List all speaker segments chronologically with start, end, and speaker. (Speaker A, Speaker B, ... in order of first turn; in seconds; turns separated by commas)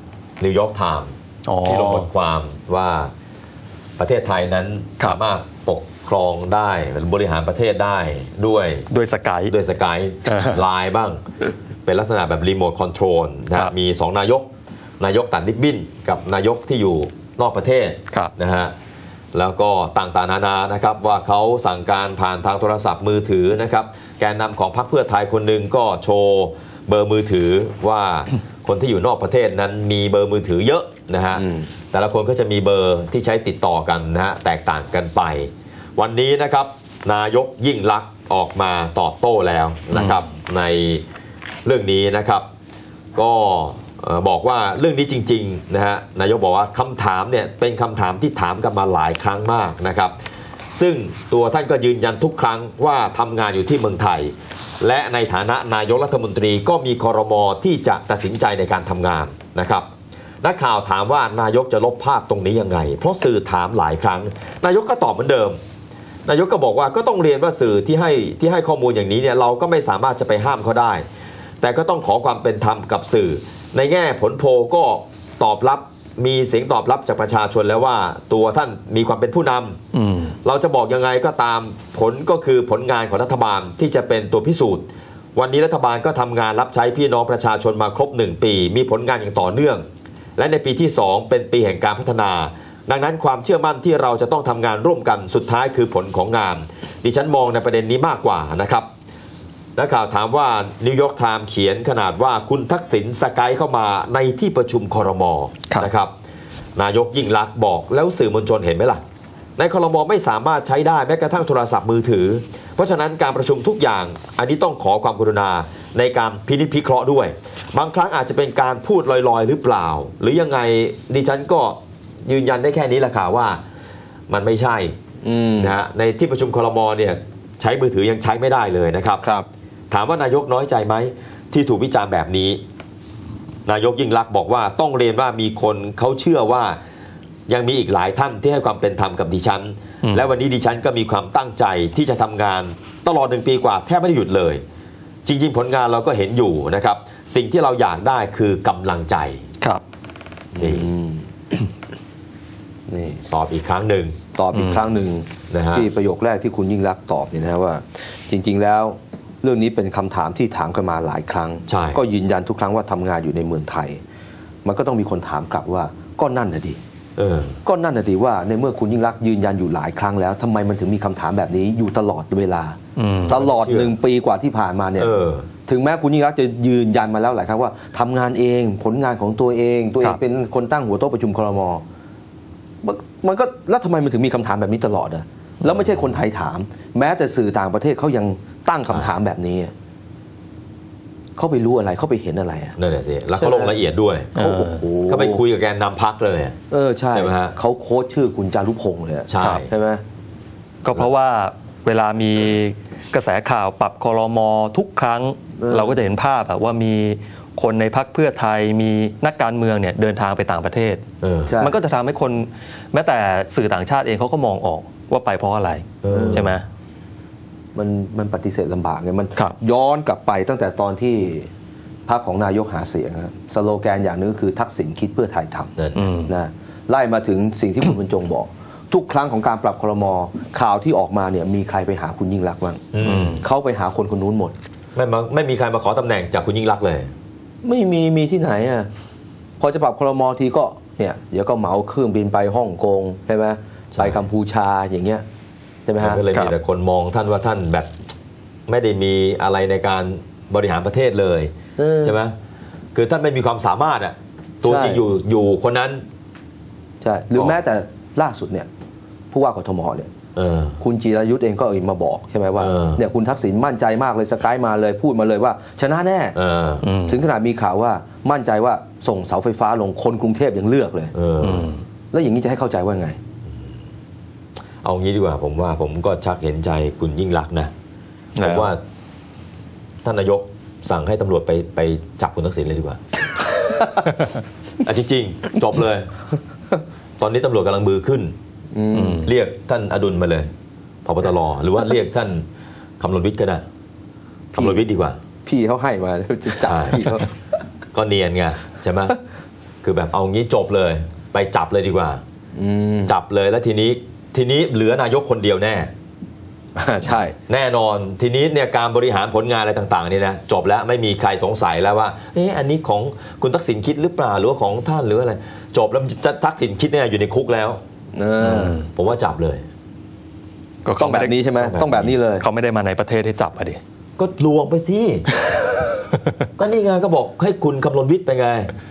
Speaker A: 0.4-1.1, Speaker B: 1.5-2.1, Speaker A: 1.6-3.1, Speaker A: 4.0-8.8, Speaker B: 8.9-9.5, Speaker A: 9.5-11.2, Speaker B: 10.3-10.6, Speaker A: 11.8-14.5, Speaker A: 15.0-18.7, Speaker A: 19.3-41.0, Speaker C: 31.3-31.7, Speaker B: 39.9-40.2, Speaker A: 41.6-42.4, Speaker A: 43.1-50.1, Speaker A: 50.7-59.9, Speaker A: 60.4-65.6, Speaker A: 66.2-71.0, Speaker A: 71.6-79.8, Speaker B: 79.9-80.3, Speaker A: 80.4-89.8, Speaker A: 90.4-98.9, Speaker A: 99.8-106.1, Speaker A: 106.8-109.0, Speaker A: 109.6-123.6, Speaker A: 124.3-124.9, Speaker C: 125.2-125.8, Speaker A: 125.6-129.2, Speaker C: 129.2-129.5, Speaker A: 129.9-132.6, Speaker A: 133.7-136.8, Speaker A: 137.5-144.6, Speaker A: 145.2-149.4, Speaker C: 150.5-151.3, Speaker A: 150.6-150.9, Speaker C: 152.9-153.2, Speaker A: 153.3-154.2, Speaker C: 154.3-164.0, Speaker B: 154.5-154.9, Speaker A: 155.5-155.9, Speaker A: 161.7-162.0, Speaker C: 164.6-166.8, Speaker A: 167.2-167.6, Speaker C: 167.6-181.8, Speaker B: 172.9-173.4, Speaker A: 173.2-173.9, Speaker A: 175.0-175.5, Speaker C: 182.8-189.7, Speaker C: 191.3-192.8, Speaker A: 192.8-194.3, Speaker C: 193.3-193.8, Speaker B: 194.3-194.8, Speaker C: 194.3-195.4, Speaker A: 195.1-196.6, Speaker C: 196.7-200.0, Speaker A: 197.1-197.6, Speaker A: 199.3-199.7, Speaker B: 199.4-199.6, Speaker B: 200.8-211.0, Speaker C: 205.6-206.0, Speaker A: 211.2-211.5, Speaker C: 211.5-211.8, Speaker B: 211.6-216.6, Speaker A: 216.0-216.5, Speaker C: 216.1-216.5, Speaker C: 217.7-221.5, Speaker C: 222.1-225.7, Speaker A: 225.8-226.0, Speaker B: 225.9-226.3, Speaker C: 226.3-234.5, Speaker A: 232.9-233.4, Speaker B: 233.0-233.4, Speaker A: 234.9-237.1, Speaker C: 237.6-238.9, Speaker C: 239.6-245.2, Speaker A: 243.9-244.2, Speaker C: 245.8-246.2, Speaker A: 246.0-247.9, Speaker A: 248.7-252.3, Speaker C: 251.8-252.2, Speaker A: 252.9-256.0, Speaker C: 254.6-255.0, Speaker C: 257.0-258.7, Speaker C: 259.3-260.1, Speaker A: 260.4-260.8, Speaker C: 260.8-266.4, Speaker A: 262.5-263.0, Speaker A: 266.3-266.9, Speaker B: 266.8-267.2, Speaker C: 267.1-271.1, Speaker A: 271.1-271.7, Speaker B: 271.4-271.8, Speaker C: 272.1-273.2, Speaker A: 274.8-277.7, Speaker B: 278.4-278.7, Speaker A: 278.4-278.8, Speaker A: 280.0-283.0, Speaker C: 283.6-284.0, Speaker A: 284.8-286.1, Speaker A: 287.2-288.3, Speaker C: 288.7-289.2, Speaker B: 288.9-289.3, Speaker A: 289.2-290.5, Speaker A: 291.0-292.4, Speaker A: 293.0-293.6, Speaker A: 294.5-295.2, Speaker C: 295.4-297.3, Speaker A: 296.6-297.1, Speaker A: 297.9-299.1, Speaker A: 299.8-302.2, Speaker C: 302.6-303.1, Speaker A: 303.0-305.9, Speaker C: 306.8-307.3, Speaker A: 307.5-317.8, Speaker C: 318.1-318.8, Speaker B: 318.4-318.9, Speaker A: 318.9-319.6, Speaker B: 320.8-323.8, Speaker C: 321.0-322.4, Speaker A: 321.6-322.1, Speaker A: 324.2-325.2, Speaker A: 326.6-328.7